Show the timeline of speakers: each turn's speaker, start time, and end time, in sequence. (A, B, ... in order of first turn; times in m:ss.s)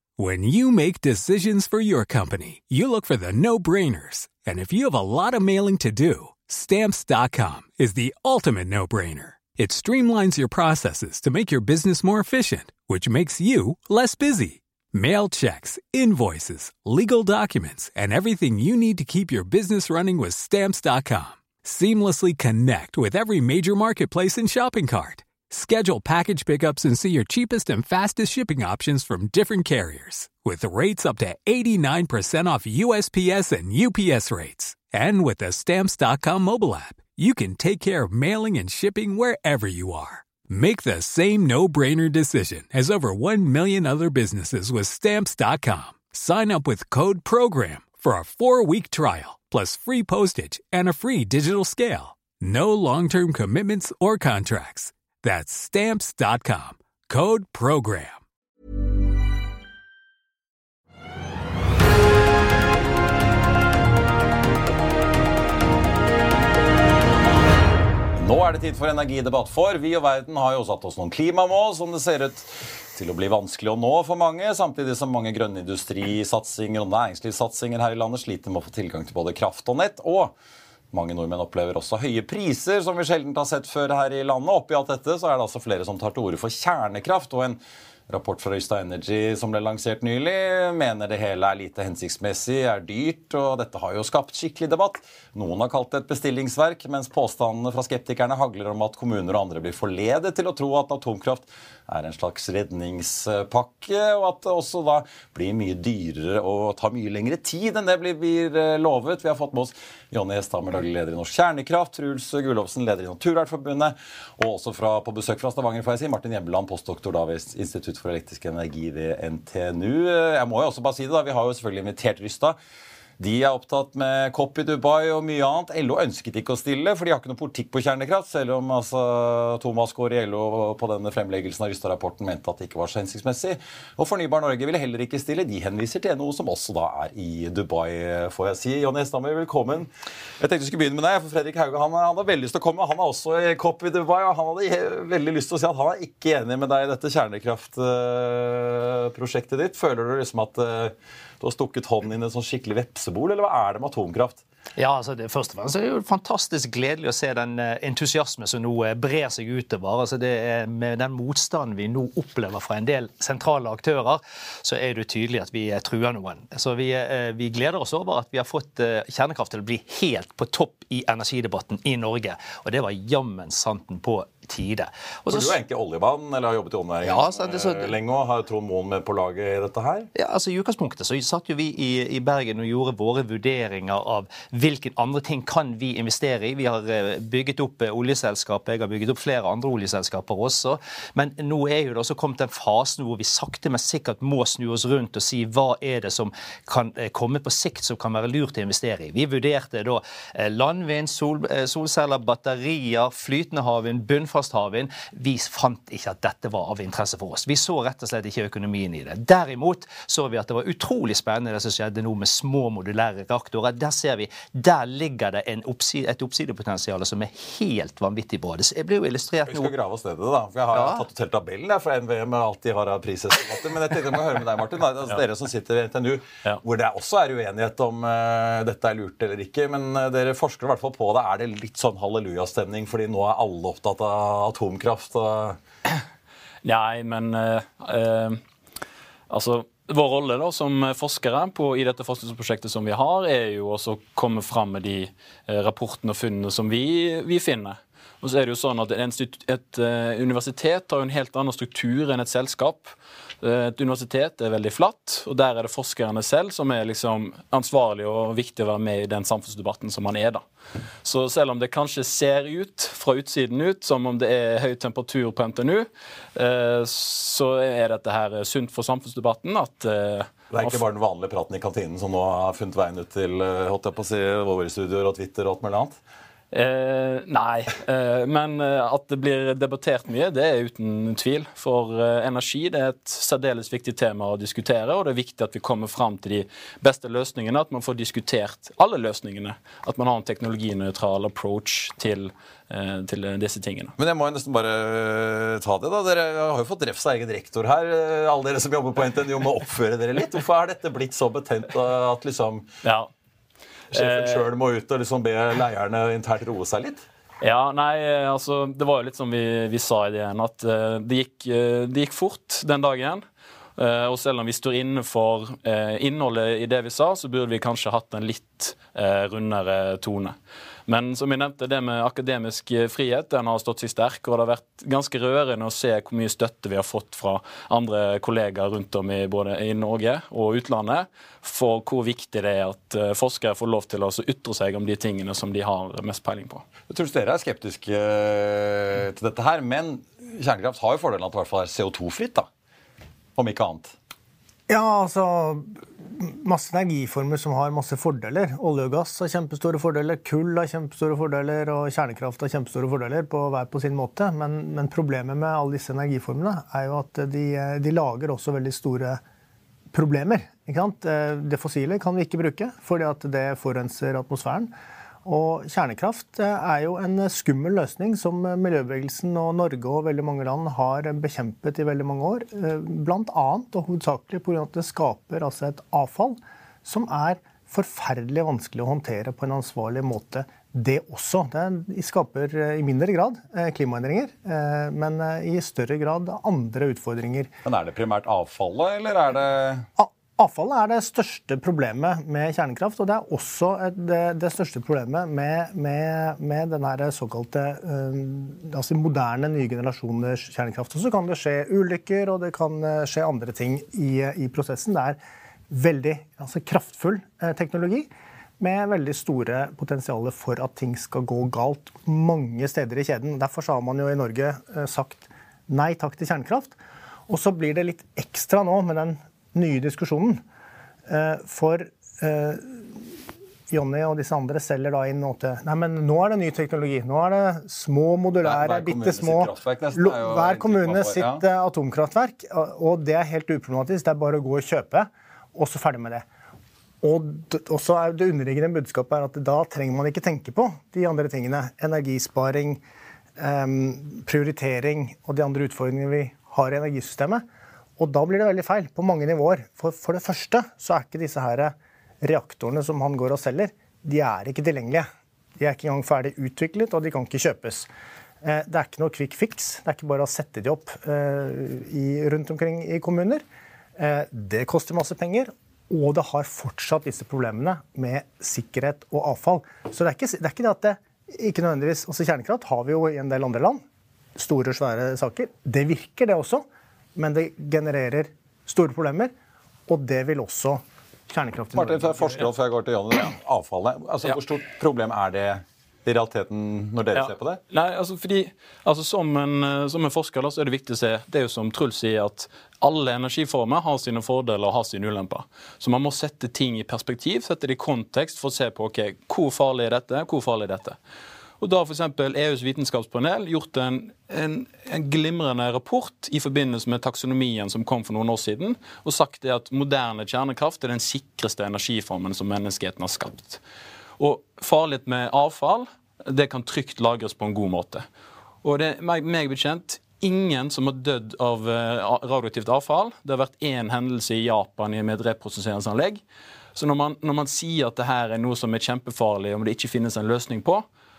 0:00.2-0:58.2 A
1:08.2-1:20.3 B
1:20.9-2:02.6 B
2:03.2-2:34.4 B
2:34.8-2:55.6 C
2:55.3-3:00.1 B
2:57.0-2:58.0 C
3:00.1-3:39.7 C
3:39.5-3:55.6 B
3:40.7-3:41.0 C
3:56.6-3:58.4 D
3:59.3-4:20.4 D
4:21.0-4:30.8 D
4:30.5-4:36.0 B
4:36.5-4:53.9 D
4:54.0-5:02.7 B
5:02.8-5:03.1 D
5:03.9-5:07.0 B
5:03.9-5:04.4 D
5:07.4-5:13.2 D
5:13.8-5:20.3 D
5:20.9-5:36.6 D
5:36.9-5:42.5 B
5:43.4-5:43.9 B
5:44.7-5:59.2 E
5:59.9-6:04.7 E
6:05.2-6:27.5 E
6:27.6-6:29.8 B
6:30.0-6:45.2 E
6:45.7-6:56.8 E
6:57.3-7:00.4 E
7:01.1-7:03.0 E
7:03.7-7:16.2 E
7:08.4-7:11.4 B
7:17.0-7:22.8 E
7:23.4-7:27.4 E
7:28.0-7:35.0 E
7:35.6-7:37.9 E
7:38.4-7:43.4 E
7:44.0-7:53.8 E
7:54.4-7:56.6 E
7:57.2-7:59.3 E
7:59.9-8:02.5 E
8:01.7-8:07.6 B
8:07.1-8:21.0 D
8:21.6-8:33.6 D
8:34.2-8:38.0 D
8:38.6-8:46.2 D
8:46.7-8:50.8 D